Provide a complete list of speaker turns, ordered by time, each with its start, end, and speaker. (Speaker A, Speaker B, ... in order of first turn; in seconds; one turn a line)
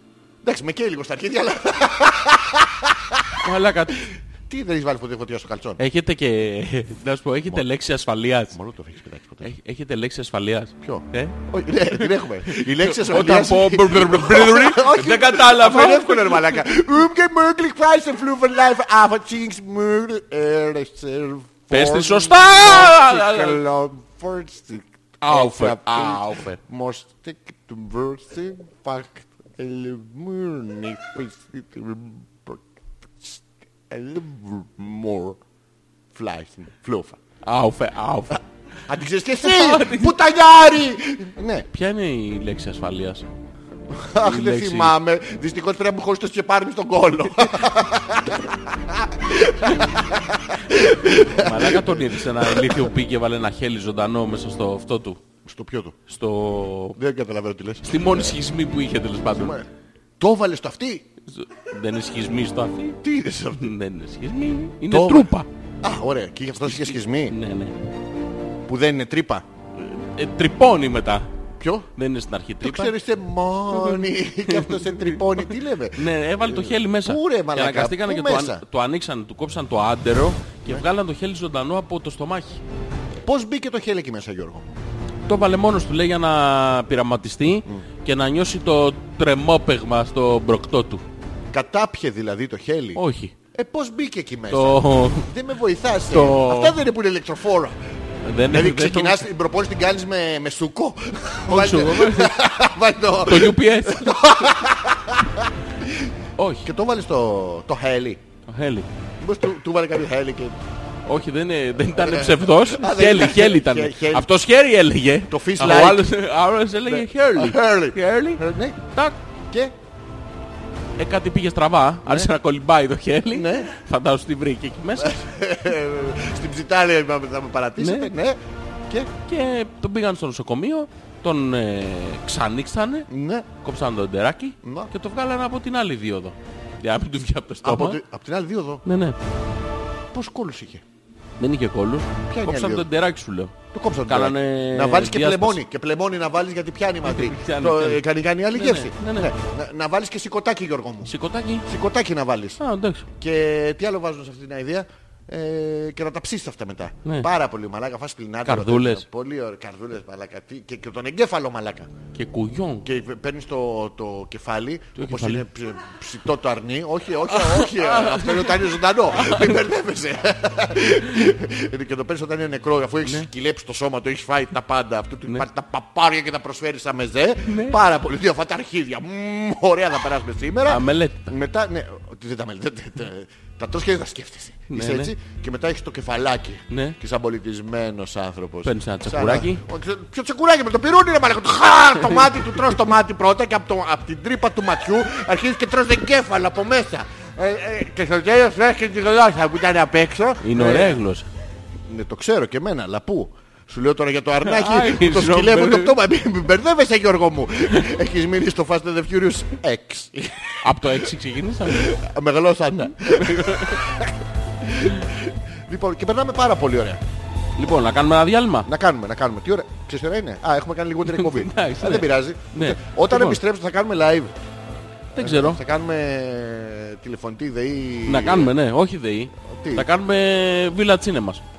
Speaker A: 0.4-3.4
Speaker B: 3.4-4.0
Speaker A: 4.0-5.8
Speaker B: 5.8-8.6
Speaker A: 8.5-9.5
Speaker B: 9.4-11.4
Speaker A: 10.8-32.6
Speaker B: 11.9-16.6
Speaker B: 21.7-23.6
Speaker B: 25.2-26.6
Speaker A: 33.2-35.4
Speaker A: 36.1-37.2
Speaker B: 37.4-38.4
Speaker A: 38.9-41.7
Speaker B: 39.4-40.1
Speaker B: 41.7-43.2
Speaker A: 43.9-52.9
Speaker B: 44.2-44.9
Speaker B: 50.7-55.2
Speaker A: 55.4-56.0
Speaker B: 56.1-57.0
Speaker A: 57.0-58.4
Speaker B: 57.8-59.6
Speaker A: 59.3-59.7
Speaker A: 60.2-61.0
Speaker B: 61.3-63.0
Speaker A: 63.0-63.7
Speaker B: 63.5-65.5
Speaker A: 64.9-67.3
Speaker B: 66.6-67.8
Speaker A: 68.7-69.5
Speaker B: 69.8-71.3
Speaker A: 71.6-71.9
Speaker B: 72.0-72.9
Speaker A: 72.6-78.6
Speaker B: 73.7-82.6
Speaker A: 83.2-84.8
Speaker B: 85.3-91.0
Speaker A: 91.5-93.0
Speaker B: 92.9-93.3
Speaker A: 93.5-97.8
Speaker B: 94.5-95.3
Speaker B: 96.1-96.8
Speaker B: 98.2-99.2
Speaker A: 98.5-106.1
Speaker B: 101.5-102.4
Speaker B: 103.2-104.5
Speaker B: 106.4-106.7
Speaker A: 106.6-108.2
Speaker B: 108.5-108.9
Speaker A: 109.2-110.6
Speaker B: 111.0-119.2
Speaker A: 111.9-114.3
Speaker A: 115.3-116.1
Speaker A: 116.8-118.8
Speaker B: 121.0-125.2
Speaker A: 122.0-122.3
Speaker A: 123.3-123.7
Speaker A: 125.0-129.1
Speaker B: 127.8-128.1
Speaker B: 129.2-133.1
Speaker A: 133.1-133.5
Speaker B: 133.6-138.0
Speaker A: 134.6-134.9
Speaker A: 137.6-138.8
Speaker B: 138.8-139.2
Speaker A: 140.1-140.8
Speaker B: 141.4-145.6
Speaker A: 142.3-142.9
Speaker A: 143.7-151.1
Speaker B: 147.0-149.3
Speaker B: 151.0-151.7
Speaker A: 151.7-152.6
Speaker B: 152.6-153.1
Speaker A: 153.1-161.9
Speaker B: 158.4-159.0
Speaker B: 162.1-162.8
Speaker A: 162.8-201.0
Speaker B: 164.9-165.4
Speaker B: 167.3-169.6
Speaker B: 177.4-177.8
Speaker B: 180.7-181.3
Speaker B: 184.7-185.1
Speaker B: 186.7-187.0
Speaker B: 188.6-189.6
Speaker B: 200.4-201.3
Speaker A: 201.9-211.1
Speaker B: 204.4-206.0
Speaker B: 210.6-212.0
Speaker A: 211.6-217.0
Speaker B: 213.1-213.8
Speaker B: 217.6-218.7
Speaker A: 218.6-224.3
Speaker B: 221.1-223.4
Speaker A: 225.1-228.5
Speaker B: 225.2-225.6
Speaker B: 228.1-231.4
Speaker A: 229.4-229.9